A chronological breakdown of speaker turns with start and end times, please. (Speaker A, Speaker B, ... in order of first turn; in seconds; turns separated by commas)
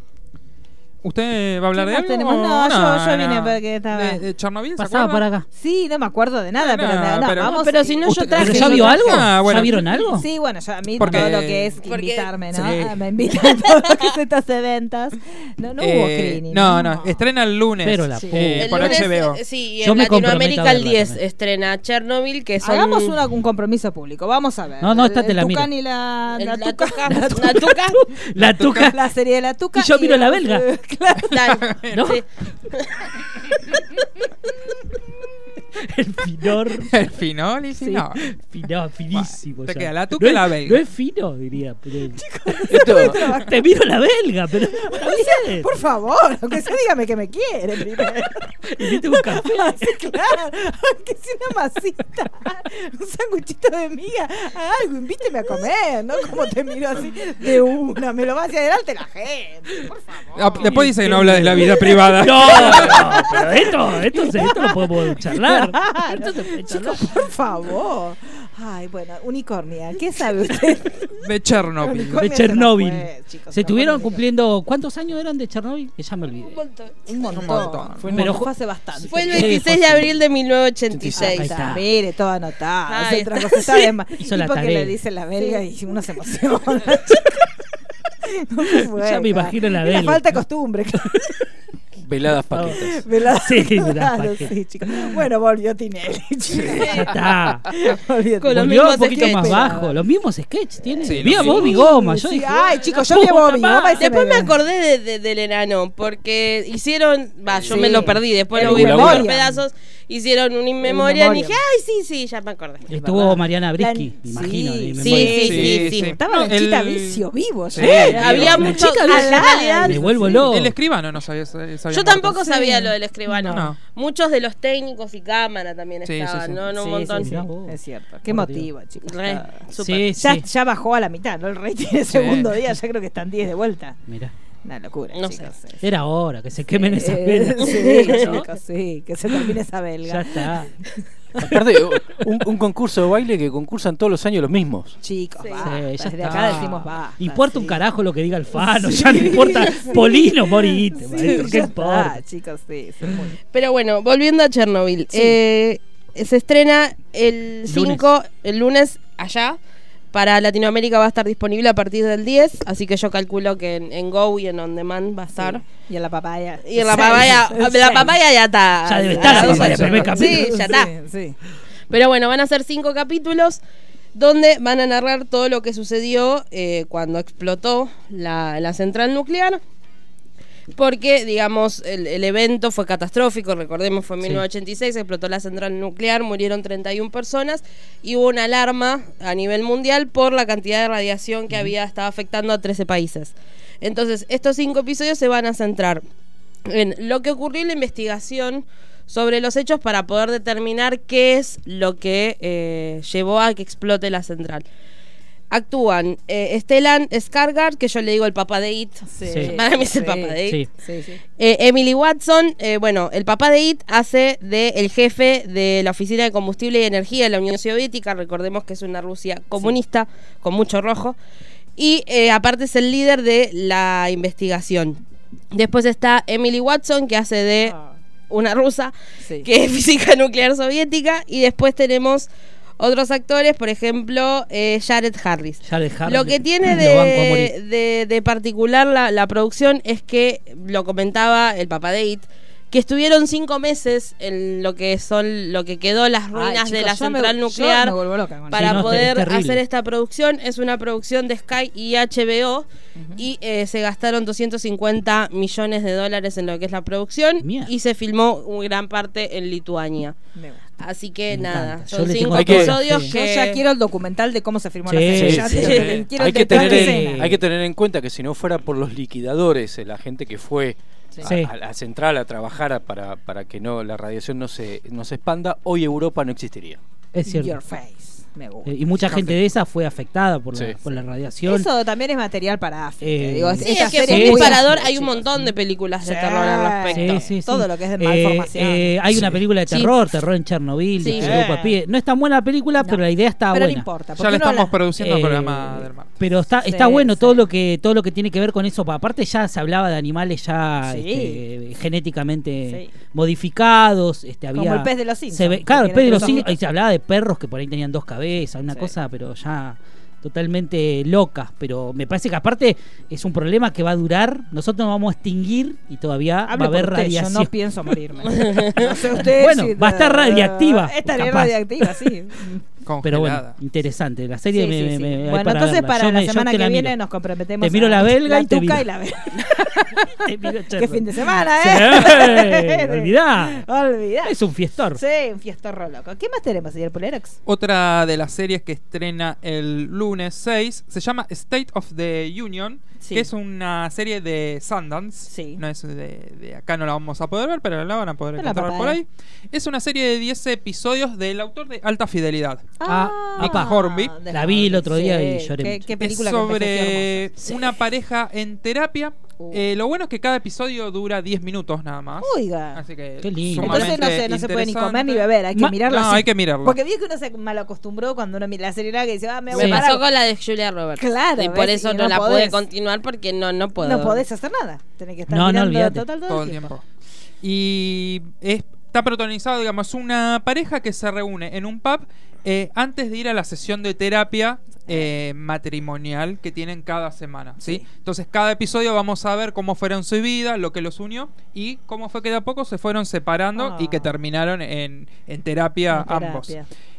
Speaker A: 1.0-5.2, Speaker B: 1.7-4.2, Speaker C: 4.8-5.5, Speaker B: 5.5-17.2, Speaker A: 6.6-9.9, Speaker D: 7.4-9.2, Speaker C: 8.3-10.3, Speaker A: 11.0-11.8, Speaker C: 11.0-11.3, Speaker D: 11.8-12.4, Speaker A: 12.5-13.0, Speaker A: 15.8-19.4, Speaker C: 17.8-19.0, Speaker B: 18.1-18.4, Speaker D: 18.6-23.2, Speaker C: 19.8-21.2, Speaker B: 22.6-27.8, Speaker C: 24.8-25.7, Speaker D: 26.4-28.0, Speaker C: 27.1-29.0, Speaker A: 28.4-28.9, Speaker B: 28.7-31.6, Speaker C: 29.7-30.7, Speaker D: 31.3-32.2, Speaker A: 31.5-32.1, Speaker C: 31.9-32.2, Speaker C: 35.8-37.1, Speaker A: 36.9-38.2, Speaker C: 37.8-45.7, Speaker A: 39.1-40.8, Speaker B: 42.2-43.6, Speaker E: 42.7-43.2, Speaker B: 44.8-71.1, Speaker C: 48.6-50.0, Speaker A: 60.4-63.2, Speaker C: 60.6-67.3, Speaker A: 71.2-72.2, Speaker B: 71.8-74.2, Speaker C: 72.1-76.6, Speaker D: 76.4-77.0, Speaker B: 77.1-79.5, Speaker A: 77.3-78.1, Speaker E: 78.0-78.3, Speaker C: 78.1-78.5, Speaker C: 79.0-80.2, Speaker D: 79.1-81.6, Speaker E: 80.9-81.3, Speaker B: 81.2-87.5, Speaker C: 81.2-81.9, Speaker D: 82.9-83.9, Speaker C: 84.2-85.0, Speaker B: 88.3-91.3, Speaker C: 88.8-90.4, Speaker E: 92.0-93.0, Speaker C: 92.5-95.2, Speaker B: 92.7-97.2, Speaker D: 96.7-97.2, Speaker C: 96.7-97.7, Speaker B: 97.7-100.0, Speaker D: 98.4-99.8, Speaker C: 98.5-104.1, Speaker A: 101.0-101.8, Speaker E: 101.3-101.6, Speaker B: 101.3-104.6, Speaker D: 104.0-112.9, Speaker B: 107.7-109.6, Speaker E: 107.8-109.3, Speaker B: 110.8-111.6, Speaker C: 112.9-115.7, Speaker B: 112.9-120.5, Speaker D: 115.0-116.2, Speaker A: 115.3-118.7, Speaker C: 117.8-120.8, Speaker D: 118.0-120.3, Speaker A: 120.4-122.5, Speaker D: 121.9-127.3, Speaker B: 122.2-122.9, Speaker A: 123.4-123.8, Speaker A: 126.0-126.6, Speaker B: 126.7-129.6, Speaker C: 127.2-128.7, Speaker D: 129.1-130.1, Speaker C: 129.8-130.4, Speaker B: 130.2-134.0, Speaker A: 132.1-132.6, Speaker C: 134.1-134.3, Speaker B: 134.7-135.8, Speaker D: 135.1-135.5, Speaker C: 135.8-138.4, Speaker B: 136.7-140.7, Speaker D: 137.7-138.4, Speaker C: 140.1-140.7, Speaker E: 141.4-145.0, Speaker B: 145.0-147.8, Speaker D: 145.4-145.7, Speaker C: 145.6-152.2, Speaker B: 148.6-153.4, Speaker D: 153.5-159.6, Speaker C: 157.7-158.1, Speaker D: 160.1-165.6, Speaker B: 165.4-168.1, Speaker D: 166.6-170.9, Speaker C: 168.8-170.6, Speaker B: 169.1-171.4, Speaker A: 169.4-170.1, Speaker D: 171.9-173.6, Speaker D: 174.2-179.6, Speaker D: 180.8-196.0, Speaker D: 196.7-204.7, Speaker D: 205.5-210.7, Speaker B: 209.1-211.2, Speaker C: 209.3-209.6, Speaker D: 211.4-221.2, Speaker D: 221.8-225.0, Speaker D: 225.5-227.8, Speaker B: 227.7-227.9, Speaker D: 228.3-248.0, Speaker B: 229.2-229.5, Speaker C: 235.6-237.5, Speaker B: 246.3-249.1, Speaker D: 248.5-260.1, Speaker C: 248.5-249.6, Speaker B: 253.0-253.2, Speaker C: 257.4-257.7, Speaker B: 260.4-260.6, Speaker D: 260.8-263.6, Speaker C: 261.3-263.1, Speaker E: 262.3-262.8, Speaker B: 262.9-267.3, Speaker C: 264.9-267.4, Speaker E: 265.1-276.8, Speaker A: 265.6-266.1, Speaker C: 271.2-271.5, Speaker C: 277.1-277.6, Speaker B: 277.2-278.8, Speaker C: 278.6-281.7, Speaker A: 279.1-279.4, Speaker E: 280.5-280.8, Speaker B: 281.4-289.3, Speaker C: 283.0-284.8, Speaker D: 283.6-287.3, Speaker C: 286.9-293.9, Speaker D: 289.7-289.9, Speaker B: 291.0-291.8, Speaker D: 291.0-291.4, Speaker B: 292.8-294.8, Speaker A: 294.2-296.2, Speaker C: 295.0-317.5, Speaker B: 296.7-297.4, Speaker B: 300.9-301.4, Speaker B: 302.7-302.9, Speaker B: 304.5-306.6, Speaker B: 316.5-322.6, Speaker D: 318.3-318.8, Speaker C: 319.1-322.1, Speaker A: 322.9-323.6, Speaker C: 323.0-327.0, Speaker B: 324.5-334.4, Speaker C: 327.6-333.6, Speaker C: 334.2-335.0, Speaker B: 334.9-337.4, Speaker A: 337.5-352.8, Speaker B: 343.0-343.3, Speaker B: 345.3-345.6, Speaker B: 348.4-349.0, Speaker B: 352.8-357.8, Speaker C: 352.9-353.7, Speaker A: 353.3-354.2, Speaker C: 354.3-355.9, Speaker A: 356.0-366.8, Speaker B: 359.4-359.6, Speaker B: 362.2-362.8, Speaker C: 363.2-364.1, Speaker B: 363.5-370.1, Speaker D: 369.5-374.2, Speaker C: 369.6-369.9, Speaker B: 371.0-372.6, Speaker B: 373.8-376.7, Speaker C: 375.3-376.1, Speaker A: 376.3-376.8, Speaker A: 377.4-396.6, Speaker B: 387.6-387.9, Speaker B: 393.6-394.1, Speaker B: 395.9-396.7